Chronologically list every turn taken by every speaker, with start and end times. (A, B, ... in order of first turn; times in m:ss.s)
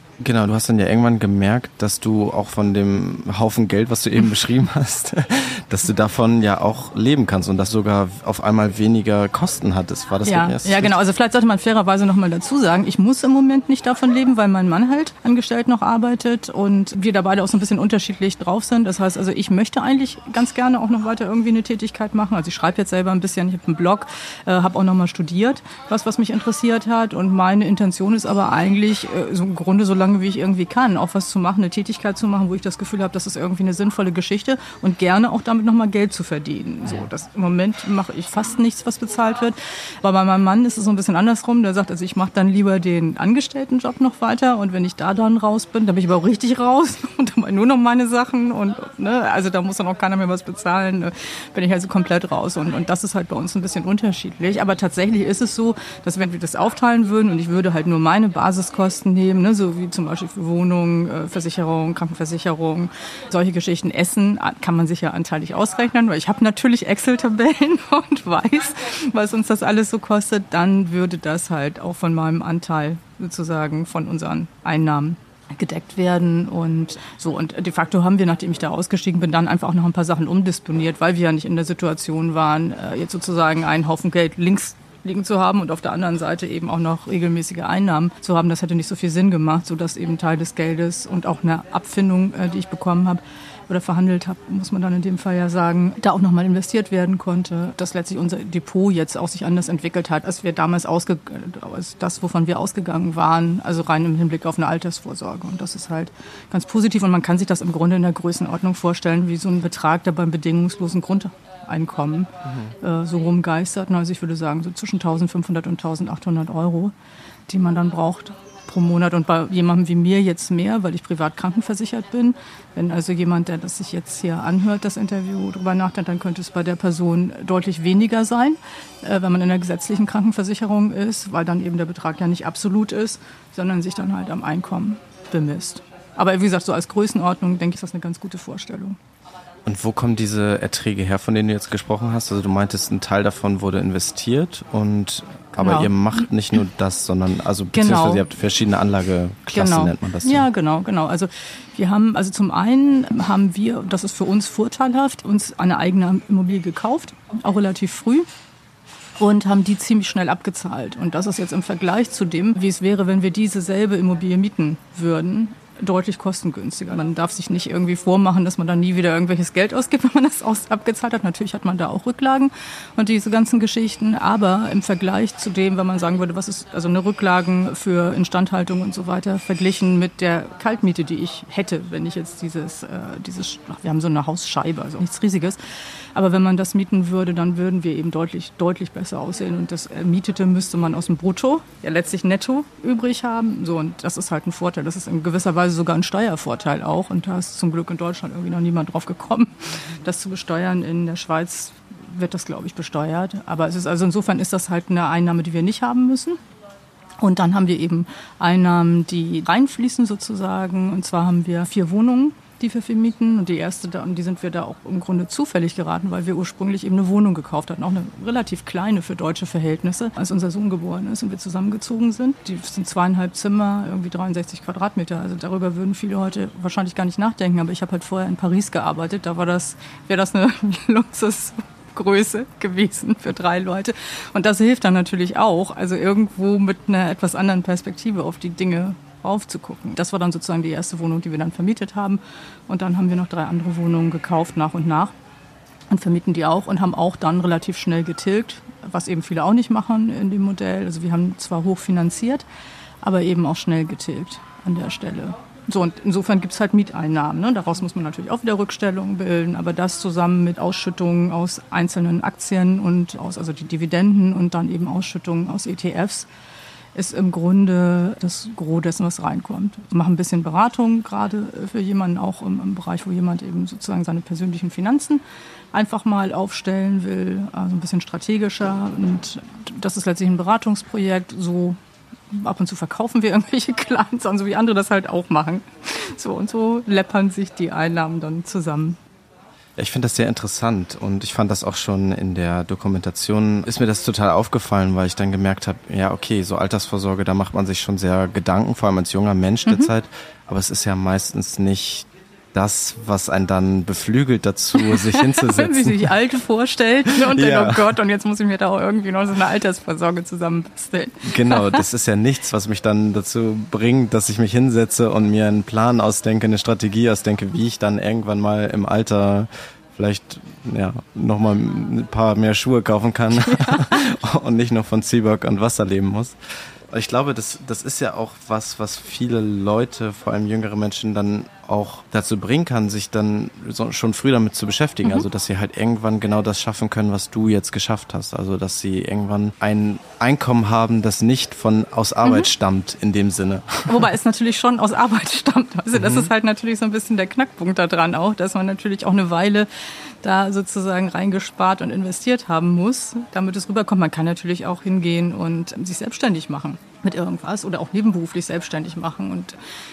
0:00.2-0:11.0 A
0:10.2-1:56.9 B
1:52.4-1:52.7 A
1:57.5-2:19.0 B
2:19.6-2:30.5 A
2:25.6-2:25.9 B
2:27.7-2:28.2 B
2:29.5-2:38.3 B
2:39.2-3:05.6 B
3:06.2-3:26.4 B
3:27.2-4:05.1 B
4:05.9-4:12.4 B
4:13.0-4:26.3 B
4:27.0-4:35.2 B
4:35.7-4:41.8 B
4:42.3-4:49.0 B
4:49.8-5:06.1 A
5:04.8-5:11.8 B
5:07.2-5:08.0 A
5:11.2-5:26.4 A
5:23.5-5:24.0 B
5:26.9-5:44.0 A
5:43.9-5:49.7 B
5:46.0-5:46.3 A
5:50.2-5:59.6 B